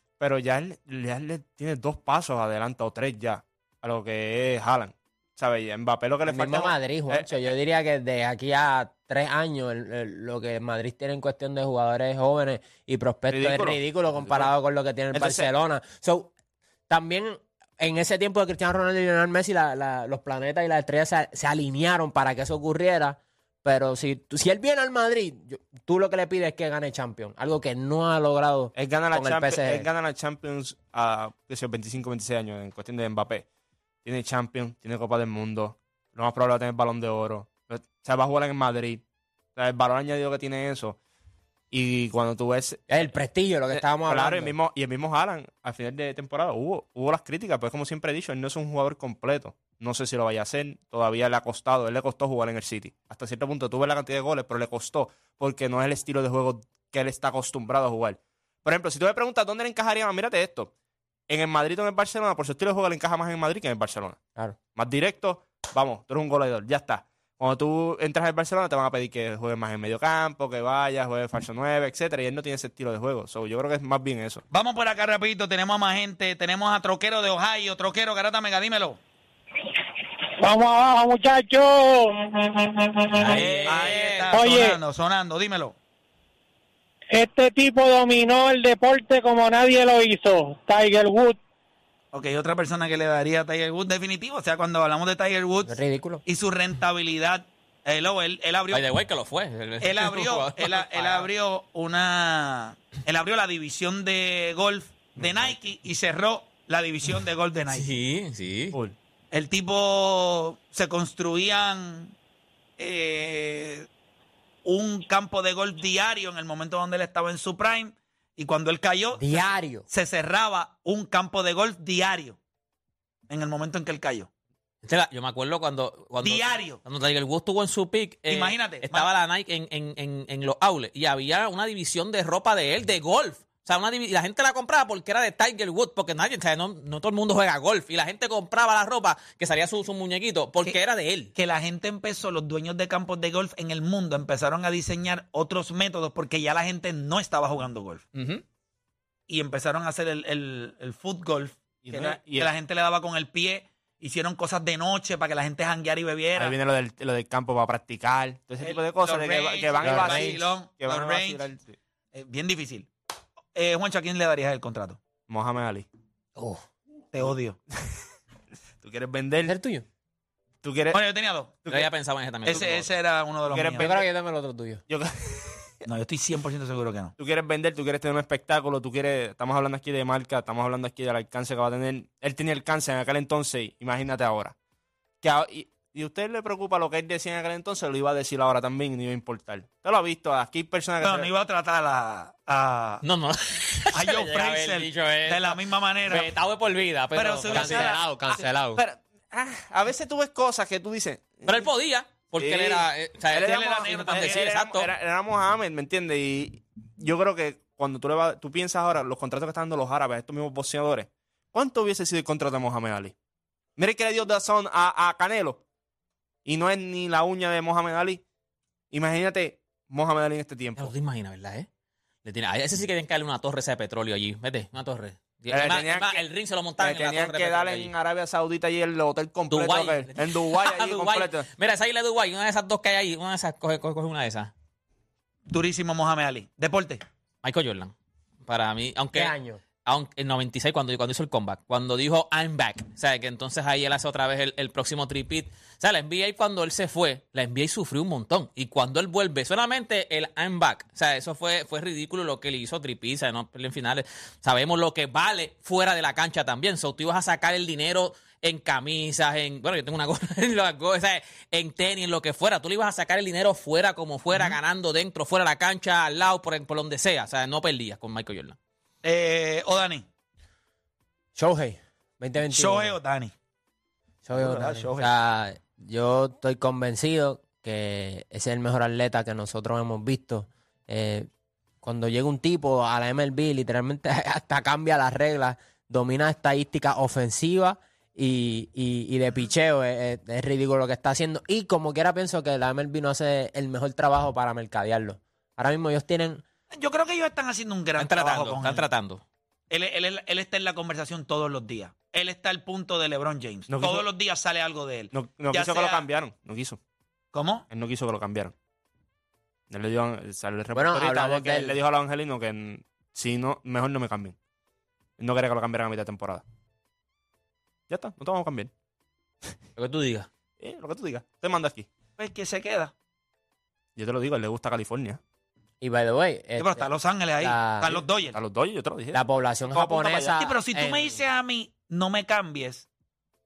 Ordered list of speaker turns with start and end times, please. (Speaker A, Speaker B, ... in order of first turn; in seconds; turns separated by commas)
Speaker A: 0.2-7.5, Speaker B: 6.2-16.3, Speaker A: 13.3-14.5, Speaker A: 15.1-15.5, Speaker B: 16.9-29.9, Speaker A: 28.8-33.5, Speaker A: 34.0-39.0, Speaker A: 39.5-41.0, Speaker A: 41.7-43.2, Speaker B: 42.9-44.5, Speaker A: 43.7-60.7, Speaker A: 61.3-64.2, Speaker A: 64.7-74.4, Speaker C: 74.5-79.0, Speaker D: 80.4-83.4, Speaker E: 83.2-84.4, Speaker C: 83.2-85.8, Speaker D: 84.3-84.8, Speaker D: 87.1-91.4, Speaker C: 92.1-98.9, Speaker B: 95.7-96.2, Speaker E: 98.7-101.3, Speaker C: 99.8-107.9, Speaker E: 107.7-108.8, Speaker C: 109.3-112.1, Speaker C: 112.8-113.9, Speaker C: 114.6-122.4, Speaker B: 119.1-119.9, Speaker C: 123.3-124.3, Speaker E: 124.8-141.3, Speaker C: 126.2-126.8, Speaker C: 128.3-129.1, Speaker C: 141.3-148.1, Speaker A: 148.2-148.4, Speaker C: 149.3-156.6, Speaker A: 151.8-152.5, Speaker A: 156.4-161.8, Speaker C: 158.6-161.4, Speaker B: 159.8-160.4, Speaker C: 162.1-162.9, Speaker C: 163.5-165.0, Speaker A: 165.3-165.9, Speaker B: 166.4-166.6, Speaker C: 167.1-167.6, Speaker A: 168.8-169.6, Speaker B: 169.5-169.8, Speaker A: 170.6-171.0, Speaker C: 170.9-171.6, Speaker E: 171.7-172.9, Speaker C: 172.4-173.9, Speaker A: 173.5-174.1, Speaker B: 173.8-174.8, Speaker A: 174.9-175.7, Speaker C: 175.9-177.1, Speaker A: 177.2-184.5, Speaker A: 185.2-191.3, Speaker C: 191.0-193.0, Speaker E: 193.0-198.0, Speaker C: 193.9-196.3, Speaker C: 197.1-198.4, Speaker B: 197.5-198.8, Speaker A: 198.8-201.7, Speaker E: 201.4-204.9, Speaker A: 202.4-213.1, Speaker C: 203.3-204.5, Speaker A: 213.8-215.6, Speaker A: 216.4-218.2, Speaker A: 218.9-220.9, Speaker E: 220.8-221.7, Speaker E: 222.2-227.9, Speaker A: 225.5-226.2, Speaker A: 226.8-231.5, Speaker E: 229.5-234.5, Speaker C: 235.5-237.0, Speaker E: 237.4-237.9, Speaker E: 238.5-268.6, Speaker B: 239.1-239.6, Speaker C: 264.3-264.6, Speaker C: 269.0-270.1, Speaker B: 271.4-273.0, Speaker C: 272.5-273.3, Speaker B: 274.2-281.3, Speaker C: 274.4-275.1, Speaker B: 281.8-296.4, Speaker C: 296.7-298.9, Speaker E: 298.0-299.2, Speaker C: 299.7-306.0, Speaker A: 303.7-304.1, Speaker A: 305.1-306.8, Speaker C: 307.3-307.6, Speaker A: 307.7-308.5, Speaker A: 309.7-314.4, Speaker B: 310.8-311.8, Speaker A: 315.2-316.4, Speaker A: 317.9-318.7, Speaker E: 319.8-320.3, Speaker A: 320.6-321.9, Speaker C: 322.2-322.9, Speaker A: 324.0-325.2, Speaker B: 325.8-328.0, Speaker C: 326.6-328.4, Speaker A: 328.3-330.4, Speaker B: 329.1-331.2, Speaker C: 330.4-332.9